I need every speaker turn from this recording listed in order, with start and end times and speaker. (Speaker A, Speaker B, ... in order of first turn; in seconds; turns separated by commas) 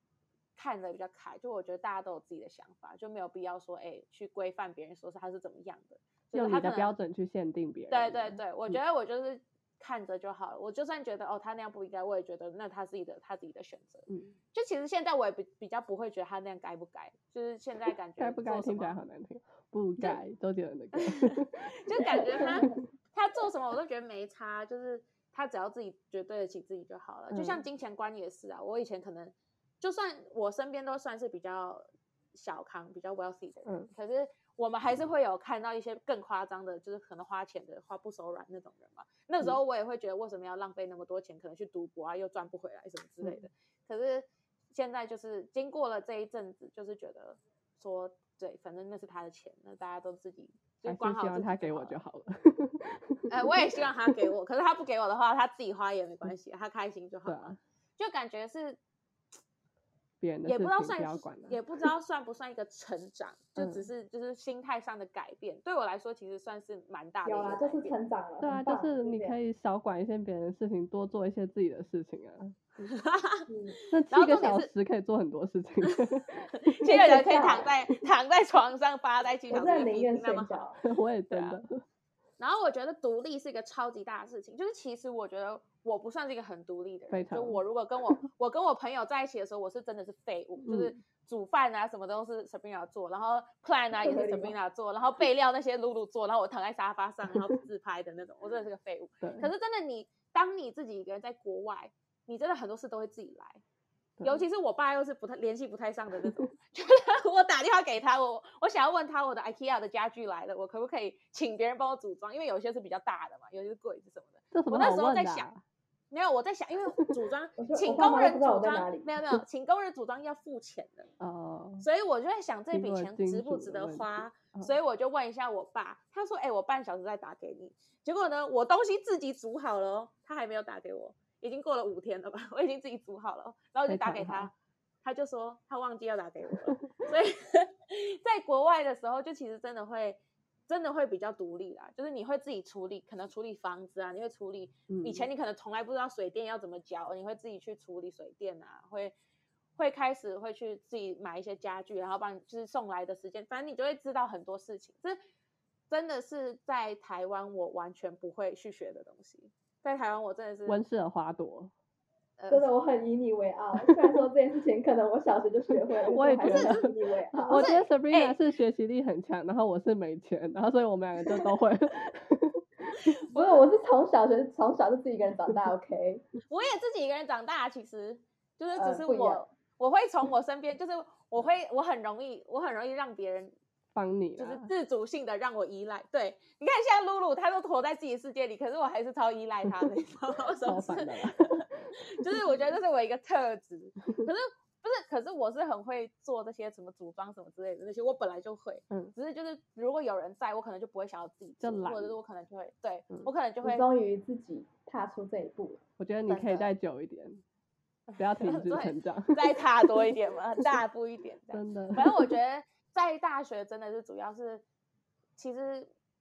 Speaker A: 0.6-6.9, Speaker B: 6.3-8.8, Speaker A: 7.9-19.0, Speaker B: 14.1-14.4, Speaker B: 18.2-22.8, Speaker A: 20.9-52.0, Speaker C: 22.0-22.8, Speaker B: 27.3-27.6, Speaker B: 33.7-33.9, Speaker B: 50.9-54.3, Speaker A: 53.3-58.8, Speaker B: 57.3-57.6, Speaker B: 60.2-61.9, Speaker A: 60.5-68.0, Speaker B: 63.6-63.9, Speaker C: 67.2-69.4, Speaker B: 68.4-72.8, Speaker A: 72.9-74.7, Speaker C: 73.5-73.8, Speaker B: 73.9-76.9, Speaker A: 76.7-80.8, Speaker C: 76.9-77.8, Speaker C: 79.5-80.8, Speaker B: 80.8-81.8, Speaker A: 81.3-81.6, Speaker A: 82.4-103.6, Speaker B: 87.1-87.6, Speaker B: 90.6-91.0, Speaker C: 93.9-94.6, Speaker B: 99.2-99.5, Speaker A: 104.2-115.5, Speaker B: 106.2-106.5, Speaker B: 114.5-115.6, Speaker A: 116.1-121.1, Speaker C: 117.6-119.1, Speaker B: 121.2-121.8, Speaker A: 121.8-134.5, Speaker B: 122.7-124.7, Speaker B: 133.9-134.5, Speaker A: 135.0-149.1, Speaker B: 144.9-145.3, Speaker A: 149.8-155.2, Speaker A: 155.9-160.8, Speaker B: 160.7-161.7, Speaker A: 162.4-162.7, Speaker C: 162.5-167.7, Speaker B: 163.8-164.2, Speaker B: 166.1-166.9, Speaker A: 166.4-168.4, Speaker B: 167.5-173.2, Speaker A: 173.3-173.7, Speaker C: 173.3-176.2, Speaker A: 176.5-183.5, Speaker C: 178.8-179.4, Speaker B: 183.9-184.7, Speaker A: 184.4-203.8, Speaker B: 190.6-192.4, Speaker B: 201.6-202.2, Speaker C: 203.6-205.8, Speaker B: 206.0-207.4, Speaker A: 206.3-206.7, Speaker A: 208.1-214.6, Speaker B: 208.2-210.2, Speaker B: 211.5-212.4, Speaker A: 215.4-215.9